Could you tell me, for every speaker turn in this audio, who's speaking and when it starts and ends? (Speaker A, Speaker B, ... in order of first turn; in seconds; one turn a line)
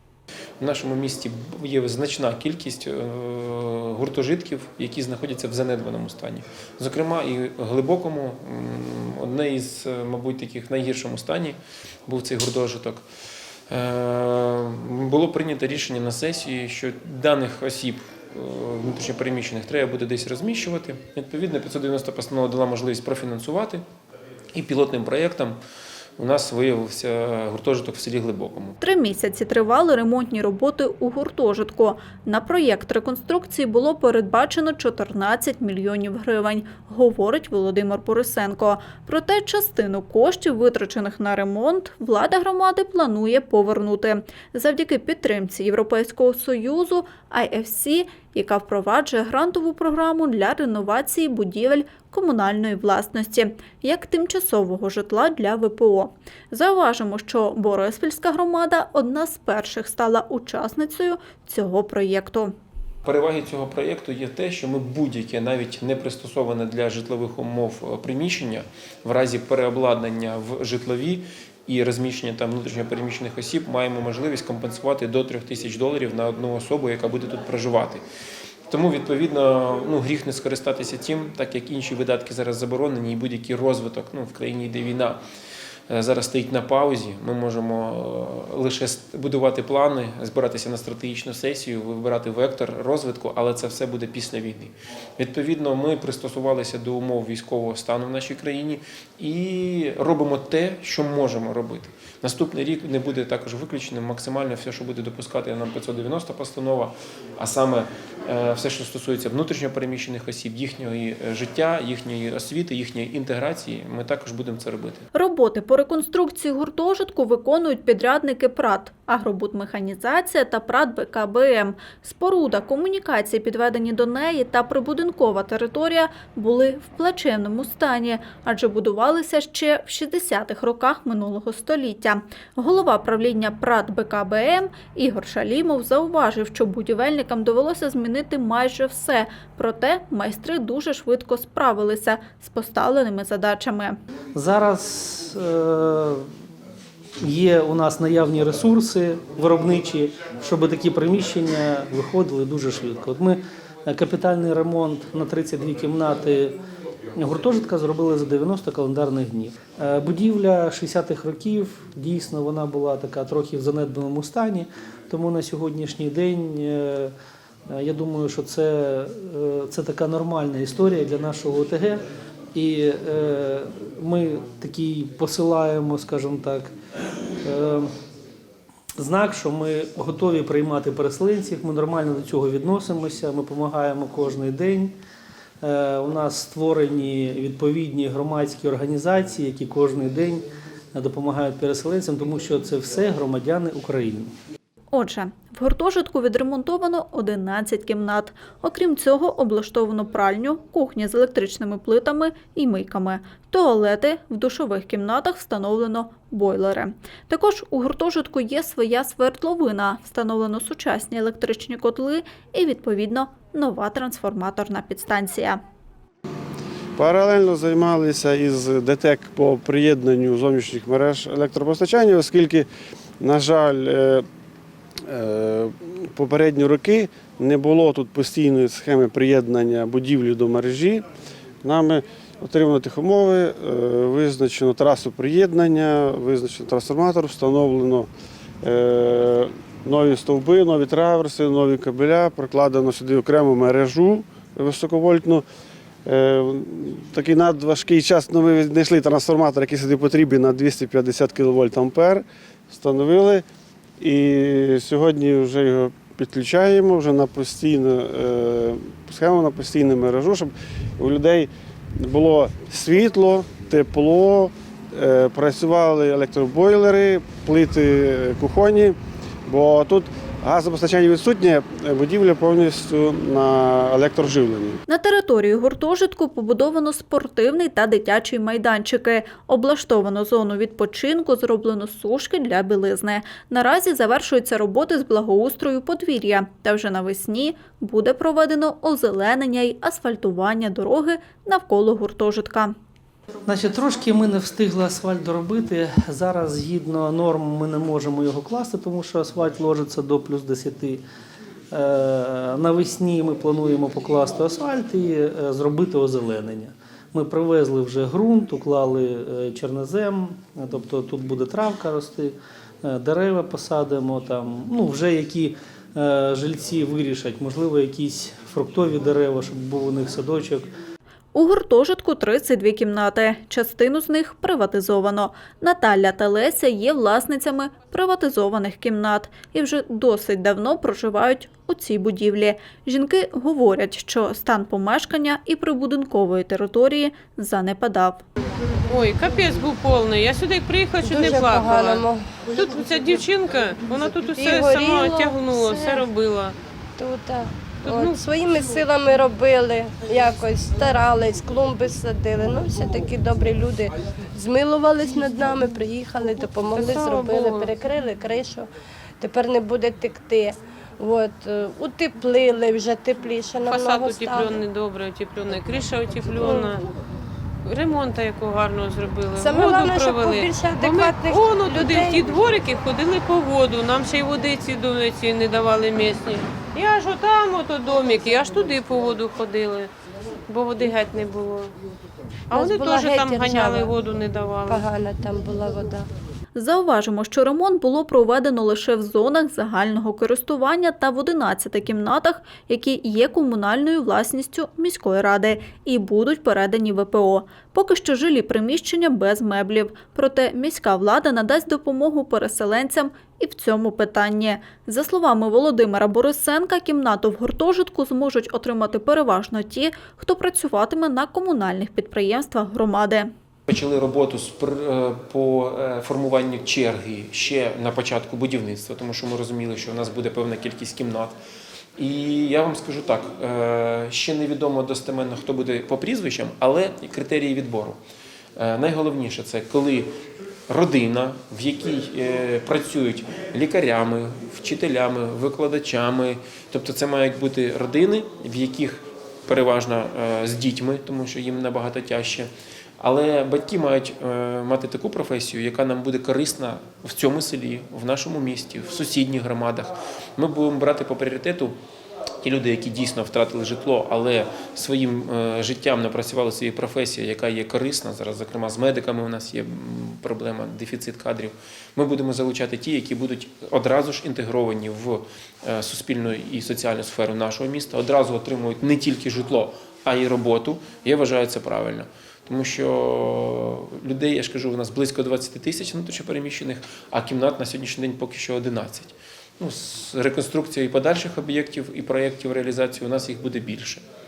Speaker A: 0.6-13.0
Speaker A: 13.7-23.8
Speaker A: 24.5-25.6
Speaker A: 26.2-28.8
Speaker B: 28.8-62.5
Speaker A: 63.0-78.0
Speaker A: 78.7-85.2
Speaker A: 85.9-115.0
Speaker B: 115.1-144.0
Speaker C: 144.3-146.3
Speaker C: 147.2-156.6
Speaker C: 157.2-167.1
Speaker C: 167.7-172.0
Speaker C: 172.5-176.7
Speaker C: 177.4-177.9
Speaker C: 179.0-184.9
Speaker C: 185.6-194.3
Speaker B: 194.9-215.6
Speaker D: 216.9-222.7
Speaker D: 223.2-224.2
Speaker D: 225.1-231.0
Speaker D: 231.6-238.1
Speaker D: 238.6-245.4
Speaker D: 246.1-253.4
Speaker D: 254.0-274.8
Speaker B: 274.9-292.7
Speaker C: 293.4-301.0
Speaker C: 301.7-320.7
Speaker B: 321.3-338.2
Speaker E: 338.9-346.5
Speaker F: 341.0-342.4
Speaker F: 344.3-346.1
Speaker F: 347.0-364.6
Speaker E: 347.8-348.2
Speaker E: 356.7-357.7
Speaker E: 363.6-366.9
Speaker F: 366.4-366.7
Speaker E: 367.6-379.9
Speaker F: 369.3-372.3
Speaker E: 380.5-381.7
Speaker E: 382.5-384.8
Speaker F: 382.5-383.9
Speaker F: 384.7-386.1
Speaker B: 386.5-413.3
Speaker A: 413.7-421.4
Speaker A: 422.0-428.0
Speaker A: 428.6-430.1
Speaker A: 430.7-451.7
Speaker A: 452.4-484.0